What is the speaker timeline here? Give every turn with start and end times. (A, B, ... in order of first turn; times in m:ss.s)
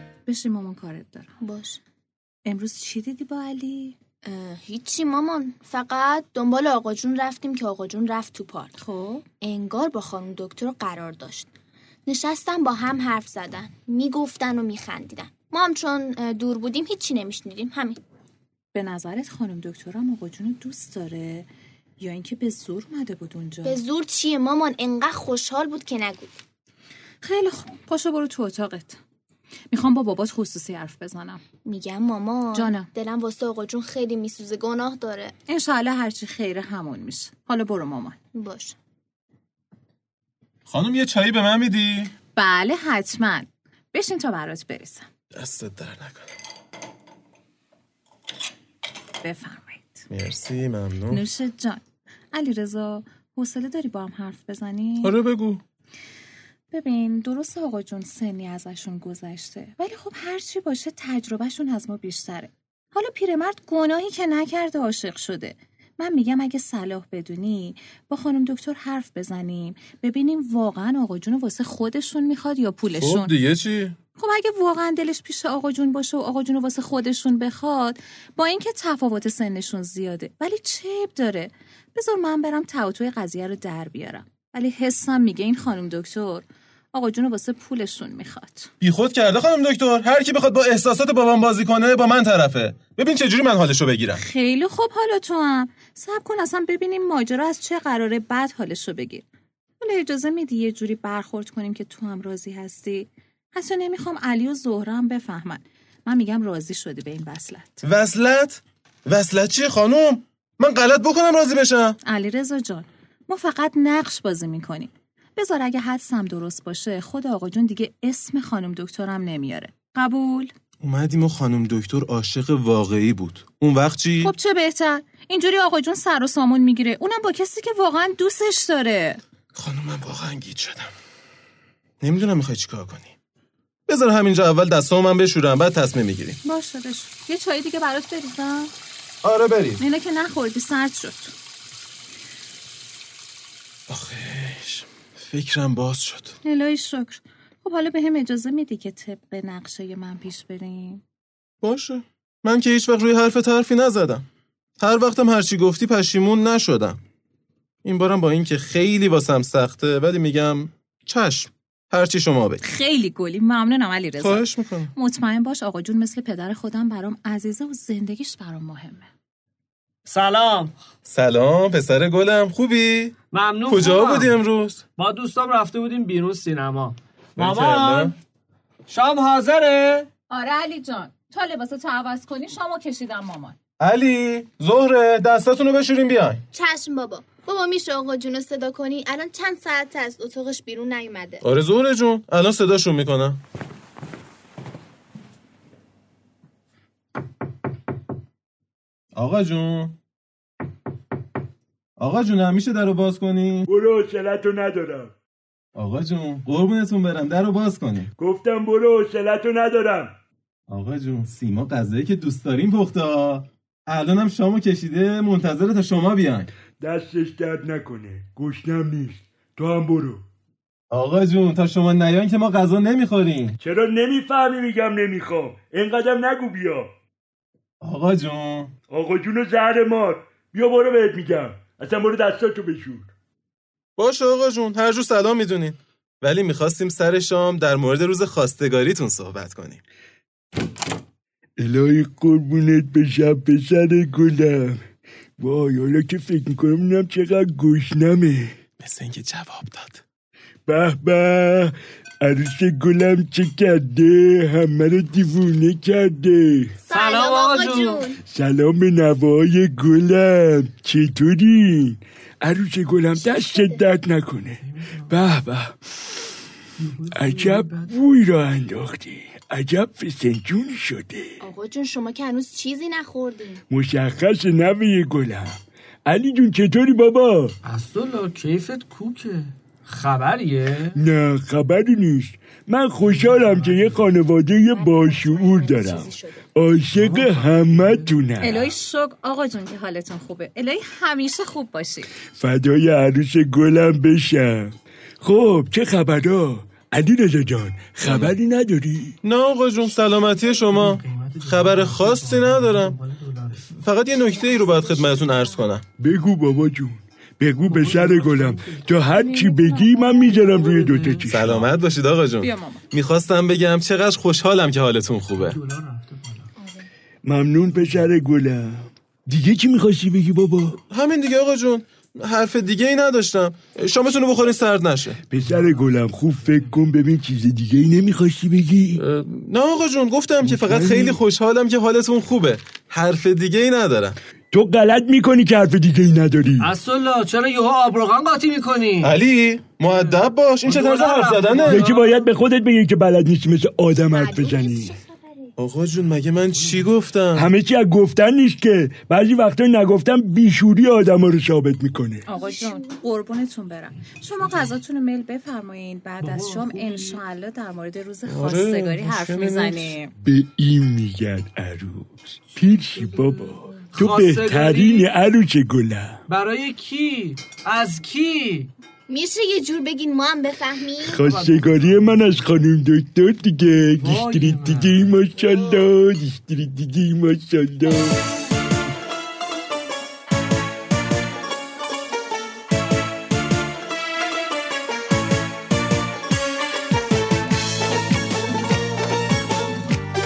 0:00.3-0:01.3 A
0:01.4-0:01.8 B
0:02.5-0:04.0 A
0:04.3-0:08.8 B
0:08.8-0:09.2 A
0:09.4-0:11.5 B
0:12.1-0:18.0 B
0:18.7-0:21.5 A
0:22.0-0:23.8 A
0:23.6-0:26.4 B
0:27.2-0:29.0 A
0:29.7-0:31.4 A
0:31.6-0:35.3 B
0:32.5-0:32.9 A
0:35.5-0:38.2 A
0:38.4-0:38.8 B
0:40.7-0:42.1 C
0:42.4-0:45.1 A
0:45.4-0:46.3 C
0:49.2-0:50.1 A
0:50.1-0:51.2 C
0:51.1-0:55.2 A
0:55.0-0:55.6 C
0:56.7-1:13.3 A
1:13.0-1:14.0 C
1:14.2-1:28.7 A
1:28.8-1:34.2 C
1:34.2-1:39.2 A
1:39.8-1:47.8 A
1:47.8-1:52.0 C
1:52.0-2:00.5 A
2:00.8-2:04.3 C
2:04.2-2:09.2 A
2:09.6-2:10.9 C
2:12.0-2:13.2 C
2:13.9-2:16.4 C
2:16.4-2:18.7 A
2:19.2-2:19.8 C
2:19.8-2:21.3 A
2:23.9-2:26.4 C
2:26.4-2:31.0 A
2:31.6-2:34.2 C
2:34.8-2:37.0 C
2:37.8-2:42.6 C
2:42.6-2:49.1 A
2:44.2-2:44.9 C
2:50.1-2:50.7 D
2:51.1-2:53.2 C
2:53.3-2:54.4 D
2:53.7-2:54.8 C
2:55.0-2:58.2 D
2:57.4-2:58.2 C
2:58.9-3:00.1 D
3:00.3-3:03.6 A
3:03.8-3:06.4 C
3:06.5-3:11.4 B
3:11.4-3:13.4 C
3:19.2-3:20.0 C
3:22.0-3:23.7 C
3:23.7-3:25.1 E
3:25.8-3:28.1 C
3:28.2-3:30.1 E
3:30.7-3:36.5 C
3:36.8-3:40.2 E
3:40.9-3:43.6 C
3:43.6-3:46.9 E
3:47.8-3:48.7 C
3:48.9-3:53.1 E
3:54.0-3:59.8 C
4:01.6-4:04.8 E
4:05.4-4:08.5 E
4:08.8-4:10.0 C
4:10.7-4:16.7 E
4:16.9-4:18.2 B
4:16.9-4:18.1 D
4:18.3-4:25.7 E
4:23.2-4:23.8 B
4:24.6-4:25.2 D
4:26.8-4:27.9 D
4:27.1-4:31.4 E
4:31.4-4:33.6 B
4:33.7-4:37.5 E
4:37.6-4:41.0 D
4:41.0-4:48.7 E
4:43.0-4:44.0 D
4:44.7-4:46.4 B
4:46.9-4:48.2 D
4:48.4-4:52.1 A
4:52.4-4:54.7 E
4:55.2-4:59.1 E
4:58.0-4:58.4 C
4:59.2-5:03.0 C
5:00.7-5:03.6 D
5:03.7-5:05.8 C
5:04.2-5:05.6 B
5:06.0-5:11.7 E
5:07.6-5:08.9 D
5:09.1-5:10.8 A
5:10.4-5:11.3 D
5:11.3-5:15.6 C
5:12.4-5:12.8 A
5:15.3-5:16.5 D
5:16.6-5:16.9 B
5:17.2-5:20.8 E
5:20.9-5:25.2 C
5:25.3-5:29.0 E
5:25.4-5:26.1 D
5:29.0-5:34.2 C
5:30.4-5:31.2 E
5:34.5-5:36.7 E
5:36.6-5:39.1 D
5:39.0-5:41.9 C
5:39.8-5:42.3 D
5:41.6-5:44.9 E
5:44.1-5:45.6 B
5:45.6-5:47.5 C
5:46.1-5:46.9 D
5:47.4-5:52.2 E
5:52.3-6:00.1 A
5:52.3-5:53.0 B
5:56.2-5:57.2 D
5:58.3-6:00.0 C
6:00.2-6:06.2 E
6:03.0-6:05.1 D
6:06.3-6:08.7 D
6:09.1-6:11.2 B
6:11.0-6:18.2 E
6:11.2-6:12.4 D
6:14.0-6:15.1 D